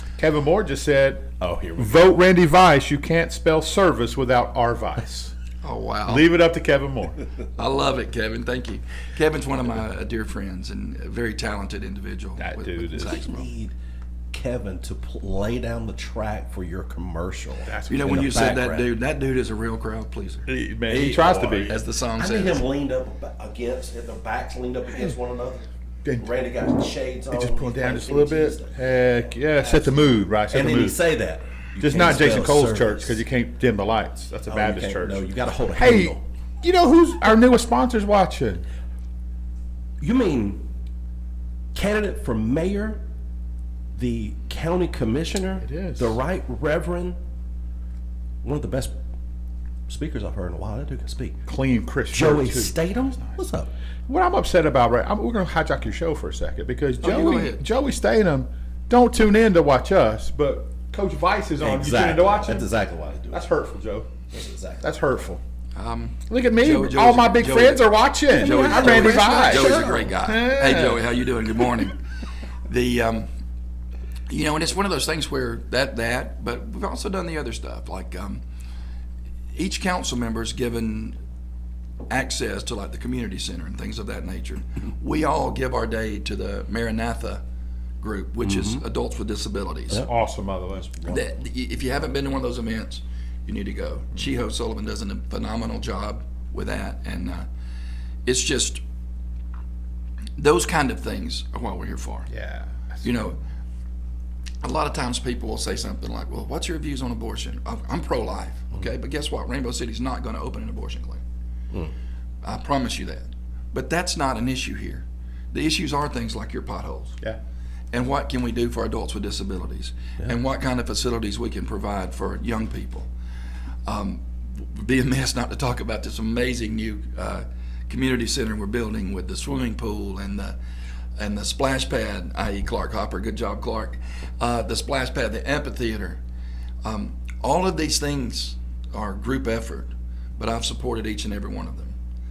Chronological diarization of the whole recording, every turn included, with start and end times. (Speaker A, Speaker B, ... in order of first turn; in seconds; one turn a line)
Speaker A: 0.2-5.3
Speaker B: 1.4-2.1
Speaker C: 5.6-6.3
Speaker A: 6.1-7.2
Speaker C: 7.5-13.5
Speaker A: 12.4-13.3
Speaker B: 13.0-13.7
Speaker B: 14.3-18.9
Speaker A: 17.6-18.4
Speaker C: 17.9-22.6
Speaker A: 20.5-21.8
Speaker B: 21.1-21.6
Speaker B: 22.2-33.2
Speaker A: 24.9-25.2
Speaker A: 26.0-26.3
Speaker A: 27.3-31.0
Speaker A: 31.8-38.6
Speaker B: 34.5-36.2
Speaker B: 40.0-40.6
Speaker B: 41.7-43.0
Speaker B: 43.9-47.1
Speaker A: 45.6-46.2
Speaker B: 48.4-48.9
Speaker B: 49.9-51.4
Speaker A: 51.5-53.4
Speaker B: 52.1-53.7
Speaker A: 54.1-62.7
Speaker C: 57.0-57.6
Speaker B: 61.6-63.4
Speaker A: 63.3-64.2
Speaker B: 64.3-64.8
Speaker A: 64.8-65.4
Speaker C: 65.8-72.0
Speaker A: 66.3-71.0
Speaker B: 68.3-70.1
Speaker C: 72.7-73.3
Speaker C: 74.3-78.4
Speaker C: 79.5-81.2
Speaker C: 82.1-87.4
Speaker C: 88.0-90.1
Speaker B: 88.4-88.8
Speaker A: 89.9-91.0
Speaker C: 91.0-97.5
Speaker C: 98.2-98.8
Speaker C: 100.4-102.3
Speaker A: 102.3-103.1
Speaker C: 103.0-103.4
Speaker C: 104.6-111.2
Speaker C: 112.4-117.2
Speaker C: 117.9-123.1
Speaker C: 123.8-130.6
Speaker C: 131.2-136.2
Speaker C: 136.8-141.9